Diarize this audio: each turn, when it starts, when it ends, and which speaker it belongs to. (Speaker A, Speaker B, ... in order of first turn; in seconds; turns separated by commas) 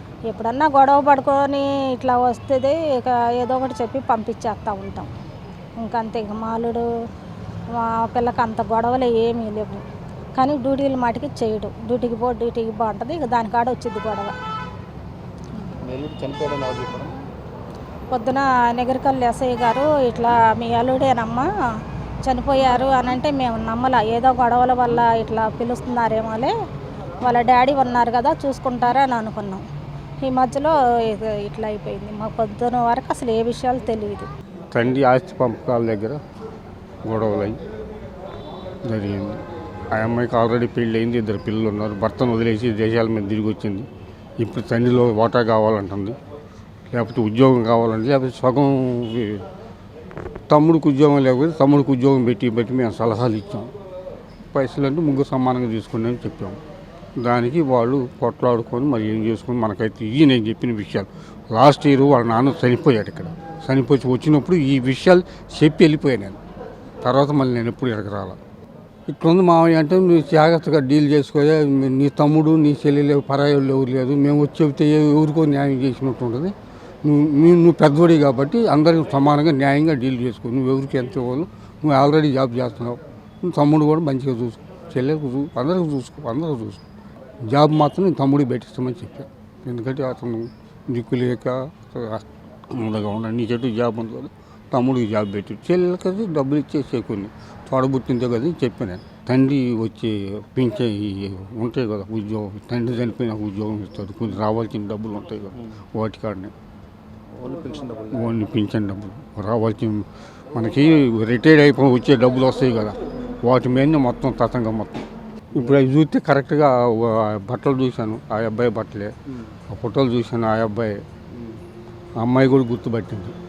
Speaker A: 0.3-5.1, Speaker A: 5.8-6.8, Speaker A: 7.7-9.8, Speaker A: 10.4-14.3, Speaker B: 15.8-17.2, Speaker A: 18.1-21.4, Speaker A: 22.2-26.5, Speaker A: 27.2-29.6, Speaker A: 30.2-34.3, Speaker C: 34.7-36.2, Speaker C: 37.0-37.6, Speaker C: 38.8-39.4, Speaker C: 39.9-43.9, Speaker C: 44.4-46.2, Speaker C: 46.9-49.4, Speaker C: 50.5-53.7, Speaker C: 54.5-56.6, Speaker C: 57.2-66.4, Speaker C: 67.0-68.4, Speaker C: 69.1-86.8, Speaker C: 87.4-106.5, Speaker B: 107.3-108.3, Speaker C: 108.1-119.1, Speaker C: 119.7-121.0, Speaker C: 122.2-123.3